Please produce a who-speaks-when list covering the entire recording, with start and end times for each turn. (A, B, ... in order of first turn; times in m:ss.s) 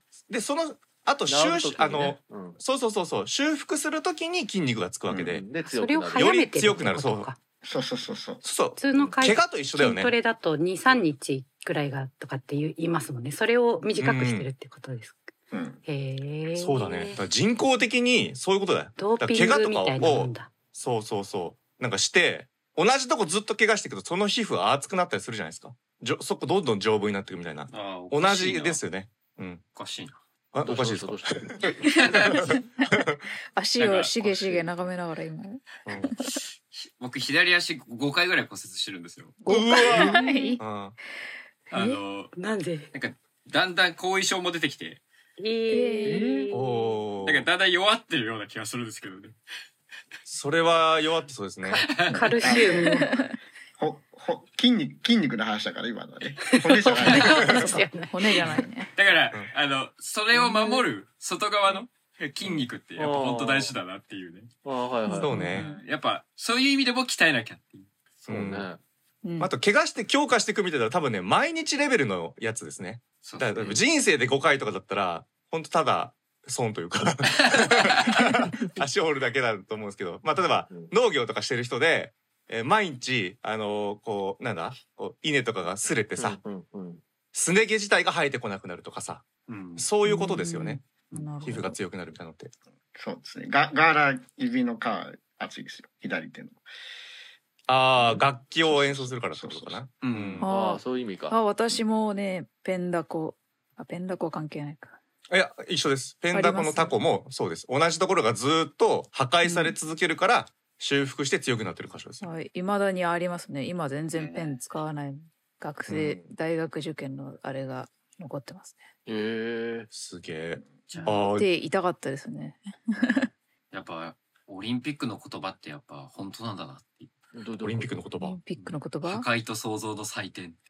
0:00.3-0:05.4 A
0:01.3-0:02.6 B
0:05.1-0:05.4 C
0:05.2-0:06.4 B
0:05.6-0:07.4 D
0:06.1-0:07.3 A
0:07.6-0:08.4 C
0:08.4-0:10.2 A
0:08.8-0:15.3 D
0:14.0-0:14.5 A
0:15.5-0:15.8 C
0:15.8-0:17.2 D
0:16.6-0:29.6 A
0:19.0-0:20.5 D
0:27.7-0:28.8 E
0:29.8-0:30.2 E
0:30.5-0:33.2 A
0:30.6-0:31.7 B
0:31.9-0:32.4 E
0:33.6-0:36.4 F
0:33.8-0:34.6 E
0:34.3-0:34.6 B
0:35.9-0:36.1 A
0:36.7-0:39.4 E
0:39.4-0:40.6 F
0:39.5-0:41.0 A
0:39.9-0:40.6 D
0:41.7-0:42.3 E
0:41.7-0:42.0 F
0:42.4-0:42.9 D
0:42.9-0:45.0 E
0:45.4-0:46.9 D
0:45.7-0:46.2 F
0:46.0-0:46.5 B
0:46.5-0:47.5 A
0:47.2-0:49.4 E
0:50.3-0:51.9 A
0:51.6-0:53.1 D
0:51.9-0:52.2 E
0:52.1-0:53.2 C
0:52.4-0:53.3 F
0:53.8-0:57.5 C
0:56.6-0:58.6 D
0:57.1-0:57.4 E
0:57.4-0:57.7 A
0:58.1-0:58.9 F
0:59.0-1:04.5 E
1:00.3-1:00.8 F
1:03.0-1:03.7 B
1:04.6-1:05.3 B
1:05.1-1:05.7 A
1:05.1-1:05.8 F
1:05.5-1:07.9 E
1:08.2-1:08.8 B
1:08.3-1:08.7 A
1:09.2-1:09.5 F
1:09.4-1:26.4 A
1:13.2-1:13.8 E
1:17.3-1:18.2 E
1:20.7-1:20.9 B
1:25.9-1:27.0 B
1:27.3-1:32.5 A
1:29.5-1:29.9 E
1:30.0-1:31.8 F
1:32.9-1:36.6 C
1:37.7-1:40.5 A
1:38.0-1:39.8 C
1:40.0-1:40.4 E
1:40.4-1:45.0 F
1:40.4-1:41.4 B
1:45.3-1:52.3 A
1:46.3-1:47.0 F
1:49.4-1:49.8 F
1:52.2-1:58.9 F
1:54.1-1:54.6 E
1:55.9-1:56.3 A
1:59.1-1:59.9 B
1:59.9-2:01.5 A
2:00.9-2:01.2 E
2:01.1-2:03.3 F
2:03.7-2:07.1 E
2:07.3-2:08.1 B
2:07.6-2:08.4 A
2:08.2-2:09.3 F
2:08.6-2:10.6 E